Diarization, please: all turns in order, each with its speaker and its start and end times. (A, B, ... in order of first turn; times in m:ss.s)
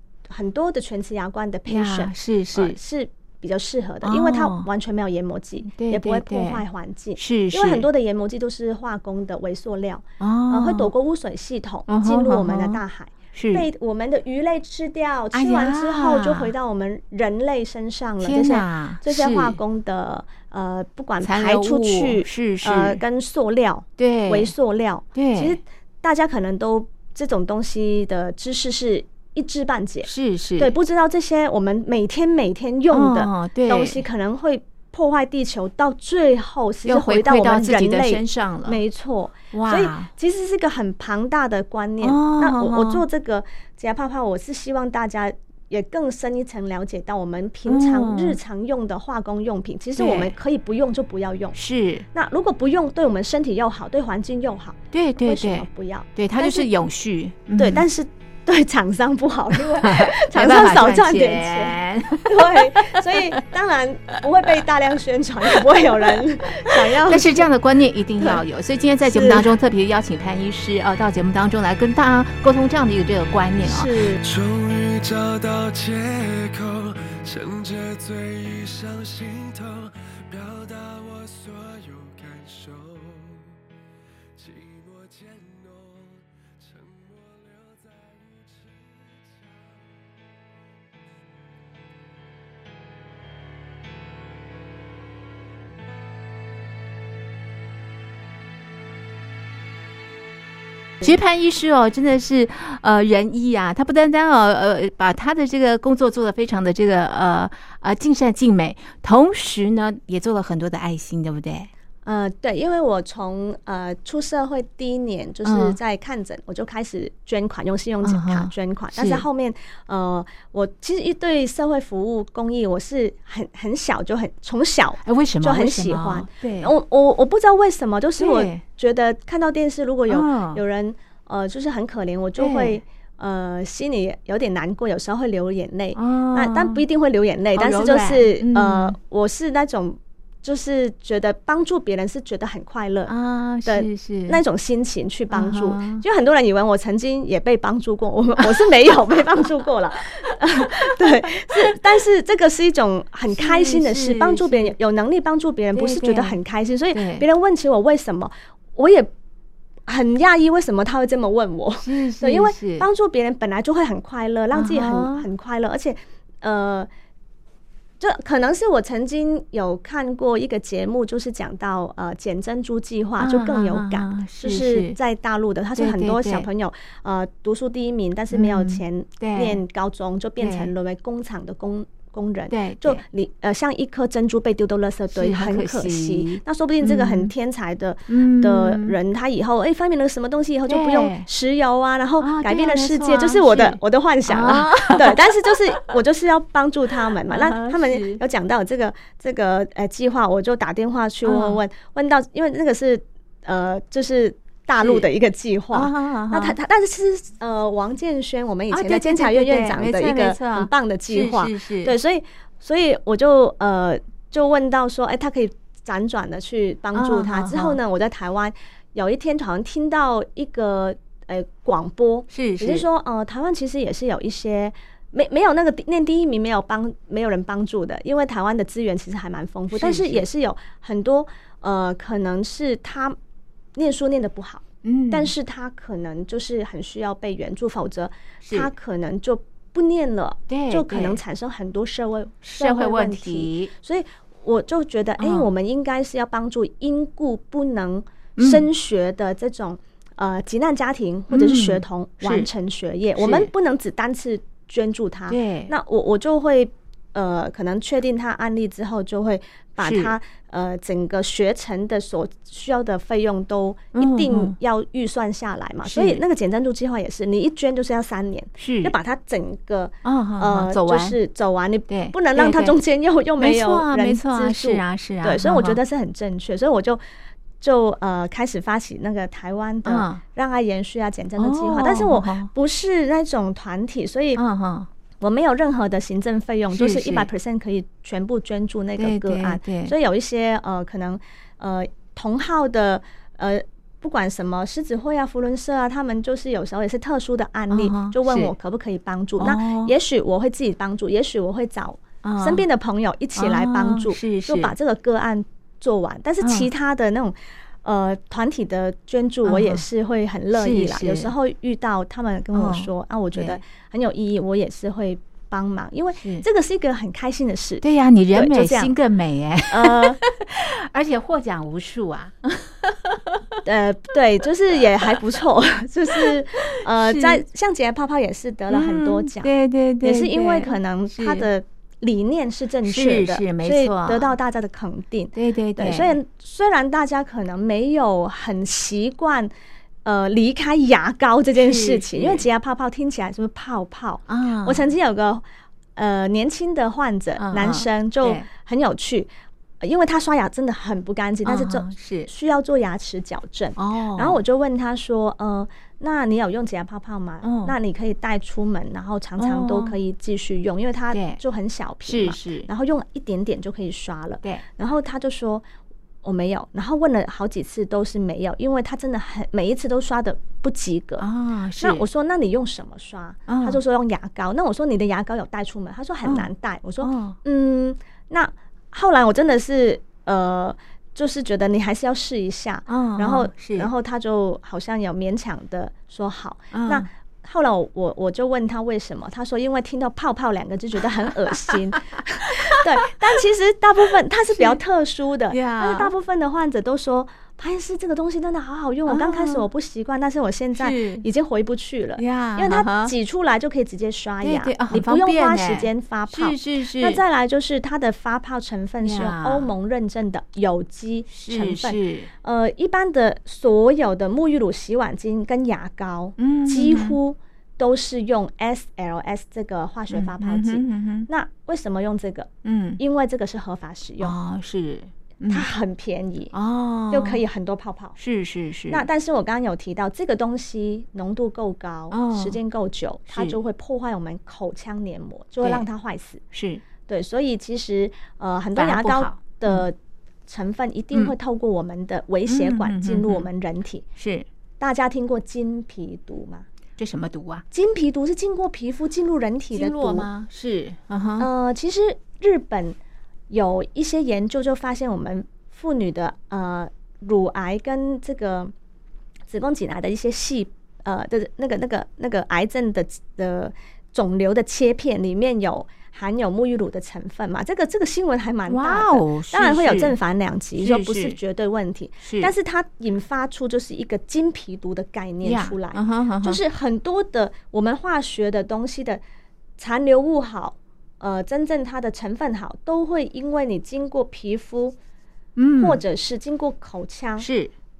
0:00.3-0:51.6 A
0:01.7-0:02.8 B
0:04.0-0:04.7 B
0:05.7-0:06.6 B
0:07.2-0:07.9 B
0:10.2-0:10.9 B
0:11.9-0:12.8 B
0:13.3-0:13.6 B
0:15.3-0:16.5 B
0:18.2-0:19.6 B
0:21.2-0:23.0 B
0:24.0-0:24.5 B
0:25.1-0:25.6 B
0:30.0-0:30.7 B
0:32.9-0:34.0 B
0:36.8-0:38.8 B
0:39.5-0:40.1 B
0:42.0-0:43.0 B
0:47.6-0:48.4 B
0:50.0-0:50.4 B
0:51.5-0:52.1 B
0:52.1-0:56.7 A
0:54.9-0:57.8 B
0:57.6-1:07.5 A
0:59.5-1:03.4 B
1:05.5-1:14.0 B
1:09.0-1:09.5 A
1:13.6-1:14.2 A
1:14.2-1:23.6 C
1:24.3-1:30.2 C
1:41.0-1:51.7 B
1:52.0-2:23.1 A
1:55.4-1:55.8 B
1:58.0-1:59.2 B
2:05.0-2:06.7 B
2:08.2-2:08.6 B
2:10.1-2:10.6 B
2:12.4-2:12.8 B
2:15.9-2:16.8 B
2:17.5-2:19.0 B
2:23.1-2:24.4 B
2:23.6-2:39.1 A
2:25.3-2:26.0 B
2:33.3-2:34.7 B
2:35.7-2:36.4 B
2:36.9-2:37.2 B
2:39.9-2:46.9 A
2:41.8-2:42.8 B
2:44.5-2:45.3 B
2:48.0-3:53.2 A
2:53.2-2:55.0 B
2:55.8-2:56.5 B
2:58.3-2:59.6 B
3:00.4-3:00.7 B
3:02.5-3:03.0 B
3:05.1-3:07.3 B
3:08.1-3:09.0 B
3:10.7-3:11.3 B
3:12.2-3:15.8 B
3:17.3-3:18.2 B
3:21.2-3:21.6 B
3:24.8-3:25.1 B
3:25.7-3:26.6 B
3:28.7-3:31.9 B
3:36.9-3:37.8 B
3:42.3-3:42.8 B
3:49.7-3:50.2 B
3:53.7-4:37.0 A
3:54.8-3:55.3 B
3:58.4-3:58.7 B
4:00.5-4:01.2 B
4:02.4-4:03.7 B
4:05.2-4:05.5 B
4:08.4-4:08.6 B
4:11.3-4:12.5 B
4:13.2-4:13.5 B
4:15.3-4:15.7 B
4:19.8-4:20.1 B
4:23.9-4:24.6 B
4:25.8-4:26.2 B
4:28.6-4:28.9 B
4:30.0-4:31.2 B
4:31.9-4:32.8 B
4:33.4-4:35.8 B
4:37.6-4:44.4 A
4:39.8-4:40.2 B
4:41.4-4:42.5 B
4:44.4-4:44.9 B
4:45.2-5:18.9 A
4:46.7-4:47.3 B
4:49.0-4:49.9 B
4:57.7-4:58.5 B
4:59.4-4:59.9 B
5:02.2-5:02.6 B
5:03.4-5:04.7 B
5:06.4-5:06.7 B
5:09.4-5:09.8 B
5:10.5-5:11.3 B
5:12.5-5:13.6 B
5:17.8-5:23.6 B
5:19.7-5:20.2 A
5:23.6-5:29.5 A
5:26.1-5:27.4 B
5:28.7-5:31.5 B
5:30.0-5:39.5 A
5:32.8-5:34.3 B
5:35.3-5:36.2 B
5:40.0-5:45.4 A
5:41.6-5:42.4 B
5:44.3-5:44.8 B
5:46.0-5:49.3 A
5:47.4-5:48.5 B
5:49.8-6:05.6 A
5:51.4-5:52.3 B
5:53.8-5:54.4 B
5:57.4-5:57.7 B
5:59.4-6:00.0 B
6:01.1-6:01.4 B
6:02.0-6:02.7 B
6:06.2-6:11.3 A
6:11.2-6:12.0 B
6:11.8-7:04.3 A
6:13.5-6:13.8 B
6:16.2-6:16.5 B
6:17.0-6:17.4 B
6:22.9-6:23.9 B
6:26.7-6:27.1 B
6:31.5-6:32.0 B
6:34.5-6:34.8 B
6:35.5-6:36.1 B
6:39.0-6:39.6 B
6:40.8-6:41.2 B
6:42.2-6:43.1 B
6:44.4-6:47.2 B
6:49.0-6:49.7 B
6:51.3-6:52.3 B
6:56.4-6:57.2 B
7:00.1-7:01.3 B
7:02.6-7:03.0 B
7:04.2-7:05.7 B
7:05.5-7:06.5 A
7:06.5-7:07.4 B
7:07.1-7:08.2 A
7:08.2-7:09.0 B
7:08.9-7:16.4 A
7:12.1-7:12.6 B
7:13.3-7:13.6 B
7:15.6-7:15.8 B
7:16.5-7:16.8 B
7:17.0-7:20.0 A
7:18.8-7:19.8 B
7:20.5-7:24.0 A
7:22.5-7:23.5 B
7:24.2-7:24.5 B
7:24.8-7:26.6 A
7:27.0-7:27.6 B
7:27.7-7:30.3 A
7:29.7-7:31.5 B
7:31.4-7:33.0 A
7:33.5-7:38.7 A
7:39.5-7:59.2 A
7:48.7-7:50.2 B
7:50.8-7:51.4 B
7:52.2-7:52.5 B
7:55.4-7:56.6 B
7:59.8-8:05.0 A
8:05.6-8:06.0 B
8:05.8-8:07.5 A
8:07.4-8:07.7 B